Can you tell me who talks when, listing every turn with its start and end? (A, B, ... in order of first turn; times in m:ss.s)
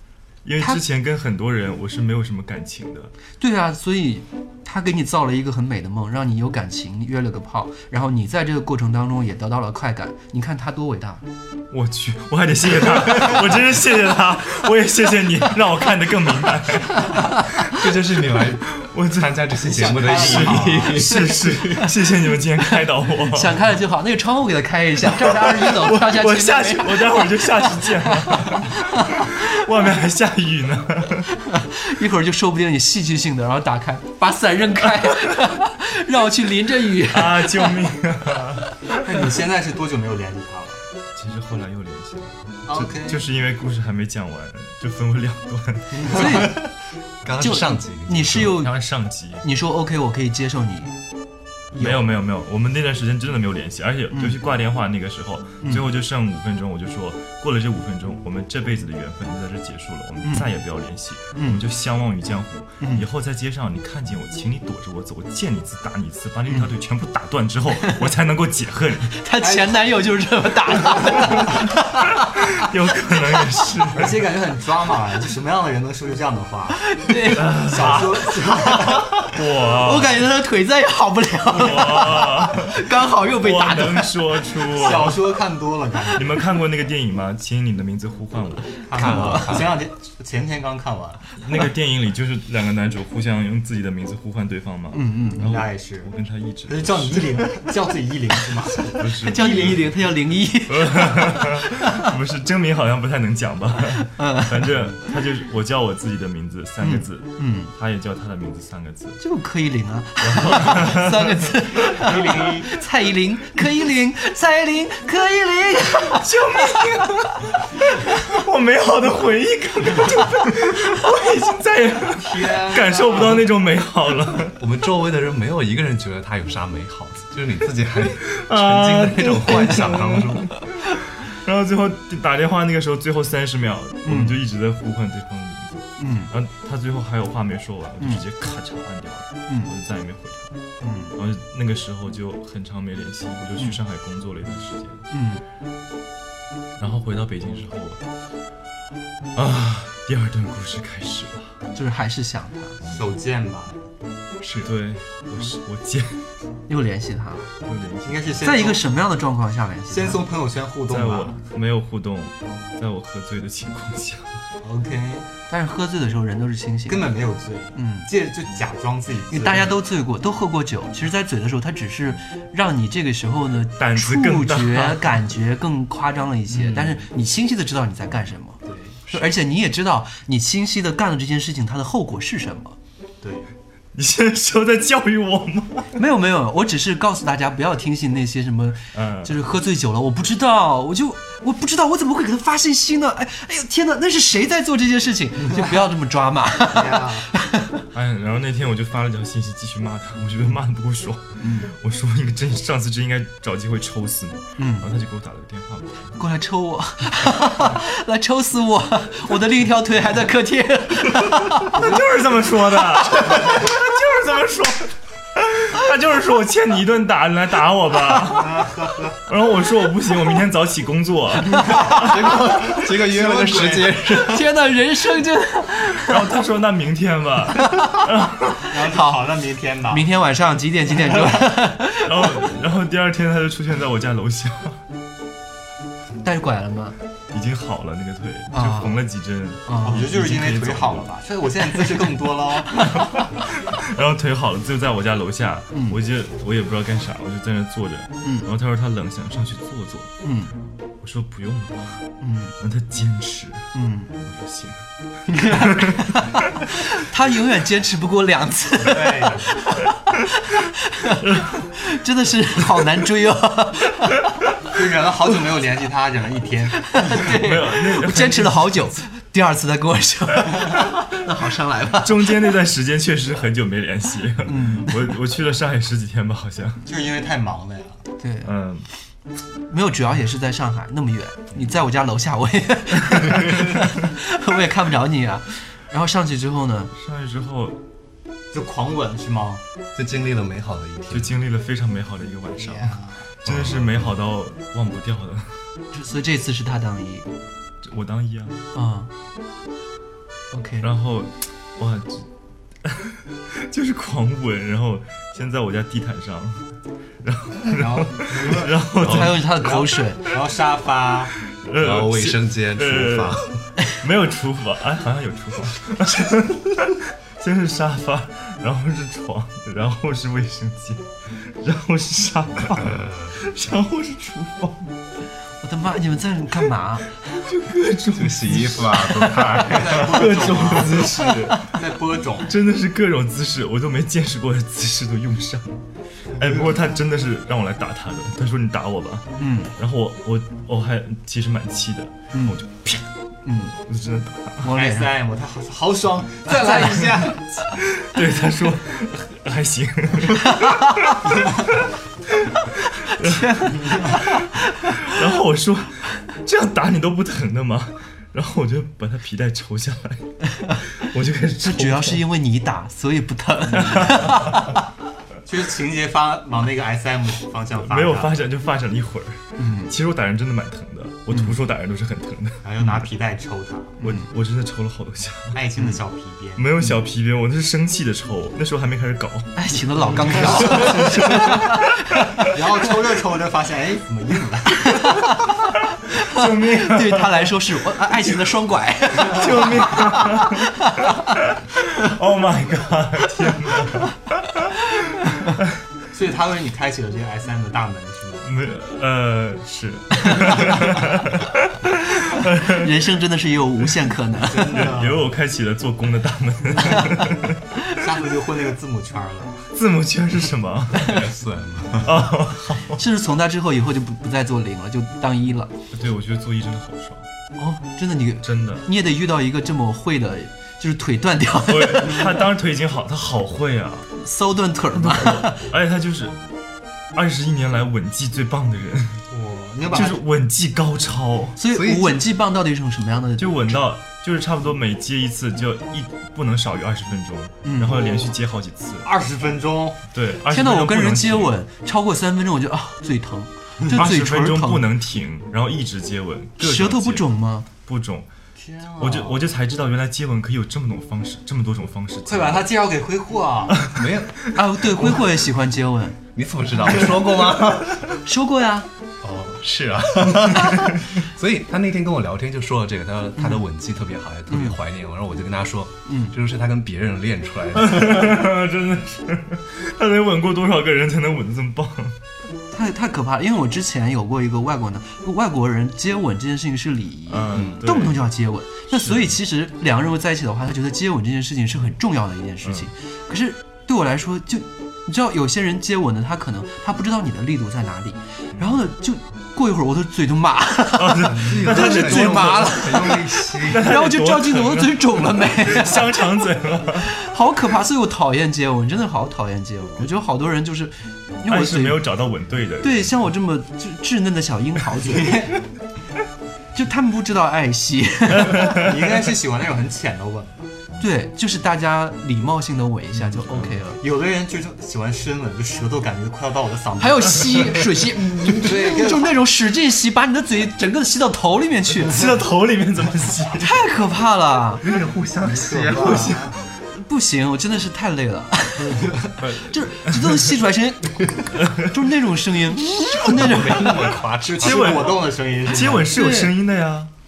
0:00.4-0:03.1 A
0:03.4-0:11.2 B
0:11.7-0:17.5 A
0:17.7-0:21.8 C
0:18.7-0:23.6 A
0:19.6-0:20.9 D
0:20.8-0:21.9 B
0:23.2-0:29.4 B
0:25.2-0:31.3 A
0:31.4-0:37.7 B
0:37.1-0:38.7 A
0:39.0-0:40.8 D
0:41.2-0:46.4 A
0:42.7-0:43.2 D
0:46.0-0:46.2 D
0:46.0-0:46.6 B
0:47.2-0:48.6 C
0:47.4-0:48.8 B
0:48.3-0:49.4 A
0:49.4-0:51.0 B
0:51.7-0:52.0 B
0:51.8-1:09.2 A
0:54.1-0:54.4 B
1:01.3-1:01.6 B
1:02.8-1:03.0 B
1:07.8-1:08.1 B
1:09.2-1:12.7 B
1:09.4-1:09.9 D
1:10.8-1:11.6 D
1:12.4-1:14.2 A
1:13.9-1:19.2 D
1:16.9-1:19.0 B
1:17.3-1:18.3 A
1:19.1-1:20.3 A
1:19.7-1:24.2 B
1:21.5-1:25.4 A
1:24.7-1:26.5 D
1:26.2-1:29.5 A
1:28.9-1:31.3 D
1:28.9-1:29.8 C
1:31.4-1:37.5 A
1:34.9-1:35.5 B
1:35.4-1:36.1 D
1:36.7-1:39.8 D
1:39.0-1:39.9 A
1:39.2-1:42.1 B
1:40.7-1:49.2 A
1:44.0-1:44.7 B
1:46.8-1:47.7 B
1:49.2-1:57.5 B
1:50.2-1:51.6 A
1:51.9-1:52.8 D
1:56.2-2:04.6 A
2:02.2-2:03.5 D
2:04.6-2:10.5 C
2:08.2-2:10.6 A
2:11.2-2:20.6 A
2:14.0-2:14.4 B
2:16.0-2:16.3 B
2:20.8-2:21.2 B
2:21.2-2:25.0 A
2:25.1-2:25.4 B
2:26.8-2:28.0 A
2:29.3-2:31.6 A
2:31.7-2:32.8 B
2:32.9-2:33.8 D
2:34.4-2:34.7 C
2:34.6-2:36.3 A
2:36.7-2:37.5 B
2:37.6-2:38.6 A
2:38.0-2:38.8 D
2:38.4-2:40.2 B
2:39.9-2:41.4 D
2:40.9-2:44.4 A
2:44.6-2:45.3 D
2:45.5-2:47.1 B
2:46.9-2:49.8 D
2:47.8-2:48.1 B
2:49.3-3:02.8 B
2:53.8-2:55.2 A
2:58.7-2:59.0 D
3:03.2-3:03.5 D
3:04.0-3:05.9 A
3:06.0-3:17.8 B
3:08.9-3:09.4 A
3:15.5-3:15.8 D
3:16.7-3:17.3 D
3:17.9-3:26.2 A
3:21.4-3:21.7 B
3:24.6-3:24.9 B
3:26.2-3:31.8 B
3:31.6-3:38.7 A
3:31.7-3:32.1 D
3:33.1-3:33.7 B
3:33.2-3:33.6 D
3:38.2-3:39.2 D
3:39.3-3:42.2 A
3:41.8-3:44.5 C
3:42.3-3:44.1 D
3:44.1-3:46.2 B
3:46.0-3:48.6 A
3:47.6-3:48.0 B
3:48.7-3:50.1 D
3:48.9-3:49.2 B
3:49.9-3:52.4 B
3:52.0-3:54.8 A
3:56.2-3:57.0 B
3:57.3-4:01.2 A
3:58.5-3:59.0 B
3:59.7-4:00.0 B
3:59.8-4:03.2 D
4:02.8-4:10.1 A
4:05.7-4:06.0 B
4:10.2-4:10.5 B
4:11.0-4:12.1 A
4:12.2-4:12.6 B
4:12.6-4:14.8 A
4:13.7-4:14.1 B
4:15.3-4:24.2 B
4:15.4-4:16.2 A
4:18.8-4:19.6 D
4:21.2-4:21.6 A
4:24.7-4:27.3 D
4:26.9-4:32.3 B
4:27.2-4:28.9 A
4:32.0-4:36.8 A
4:34.4-4:35.2 B
4:36.8-4:38.0 D
4:38.2-4:38.5 B
4:38.4-4:38.9 A
4:39.7-4:46.9 B
4:46.9-4:47.8 A
4:48.5-4:49.6 D
4:50.0-4:51.4 C
4:51.1-4:55.6 A
4:52.6-4:53.3 D
4:53.4-4:54.1 C
4:55.9-4:57.3 B
4:57.8-4:58.6 A
4:58.7-4:59.1 B
5:00.5-5:00.9 B
5:00.8-5:02.3 A
5:02.8-5:06.6 A
5:07.2-5:09.7 A
5:07.7-5:11.3 D
5:09.0-5:09.3 C
5:09.0-5:10.2 B
5:11.5-5:24.9 A
5:11.8-5:13.6 C
5:22.8-5:23.4 C
5:25.6-5:27.1 B
5:27.4-5:31.5 A
5:28.1-5:31.5 C
5:29.6-5:32.5 D
5:32.4-5:35.8 A
5:36.4-5:43.1 A
5:39.4-5:39.7 B
5:43.4-5:43.8 B
5:43.8-5:44.7 A
5:44.6-5:45.1 B
5:44.7-5:47.4 D
5:46.5-5:47.4 B
5:47.7-5:51.2 A
5:50.4-5:51.2 B
5:51.2-5:51.8 D
5:52.4-5:54.2 A
5:53.2-5:55.2 B
5:53.7-5:54.3 D
5:55.0-6:02.2 A
6:00.5-6:00.8 B
6:01.6-6:04.8 B
6:03.8-6:04.6 A
6:05.5-6:08.4 D
6:07.8-6:12.6 A
6:09.6-6:09.9 B
6:11.3-6:11.6 B
6:12.6-6:14.0 D
6:14.0-6:14.3 B
6:14.0-6:15.6 A
6:15.5-6:16.7 D
6:16.6-6:19.5 A
6:19.6-6:22.5 B
6:20.1-6:21.8 A
6:20.3-6:21.7 D
6:22.4-6:25.2 D
6:24.8-6:31.3 B
6:26.2-6:27.6 A
6:29.2-6:34.7 A
6:35.2-6:35.5 B
6:36.1-6:38.5 D
6:38.4-6:43.0 A
6:40.3-6:40.6 B
6:42.6-6:44.9 B
6:44.4-6:45.3 D
6:44.7-6:47.6 A
6:46.8-6:47.2 B
6:47.8-6:49.7 D
6:49.7-6:51.2 A
6:51.0-6:52.3 C
6:52.0-6:53.0 A
6:52.9-6:55.7 B
6:55.9-6:57.3 A
6:57.6-7:02.4 B
6:58.4-6:58.9 A
7:01.7-7:04.1 A
7:04.2-7:05.6 B
7:04.9-7:06.4 A
7:07.1-7:09.2 A
7:09.3-7:10.2 D
7:09.9-7:11.6 A
7:11.6-7:13.8 B
7:11.7-7:12.2 C
7:13.4-7:19.1 A
7:17.6-7:18.0 B
7:17.9-7:18.4 D
7:19.0-7:20.0 D
7:20.1-7:21.6 A
7:20.5-7:24.9 B
7:23.9-7:28.3 A
7:26.6-7:27.7 B
7:28.6-7:29.4 D
7:29.0-7:32.7 A
7:32.3-7:33.9 D
7:33.9-7:34.4 C
7:34.5-7:36.2 B
7:36.4-7:38.1 C
7:38.2-7:38.9 B
7:39.2-7:48.5 C
7:43.4-7:43.6 B
7:44.5-7:44.8 B
7:46.1-7:46.3 B
7:47.8-7:52.2 A
7:52.7-8:16.2 B
7:57.3-7:58.2 A
7:57.5-7:57.8 C
7:58.9-7:59.4 A
8:02.6-8:02.9 A
8:08.6-8:08.8 A
8:11.0-8:17.1 A
8:11.3-8:13.9 C
8:17.0-8:22.0 B
8:21.5-8:23.2 A
8:22.8-8:25.4 B
8:25.0-8:25.6 D
8:26.8-8:28.8 B
8:28.5-8:28.8 A
8:28.6-8:30.7 D
8:31.0-8:34.0 B
8:33.3-8:33.8 A
8:34.0-8:37.9 D
8:37.0-8:42.2 B
8:38.5-8:39.4 D
8:42.0-8:43.8 A
8:43.6-8:44.8 B
8:44.8-8:46.5 C
8:45.4-8:46.6 D
8:46.9-8:54.2 B
8:48.8-8:49.4 D
8:49.4-8:49.9 C
8:53.1-8:55.2 C
8:54.4-8:56.1 D
8:54.6-8:57.1 A
8:56.1-8:56.5 B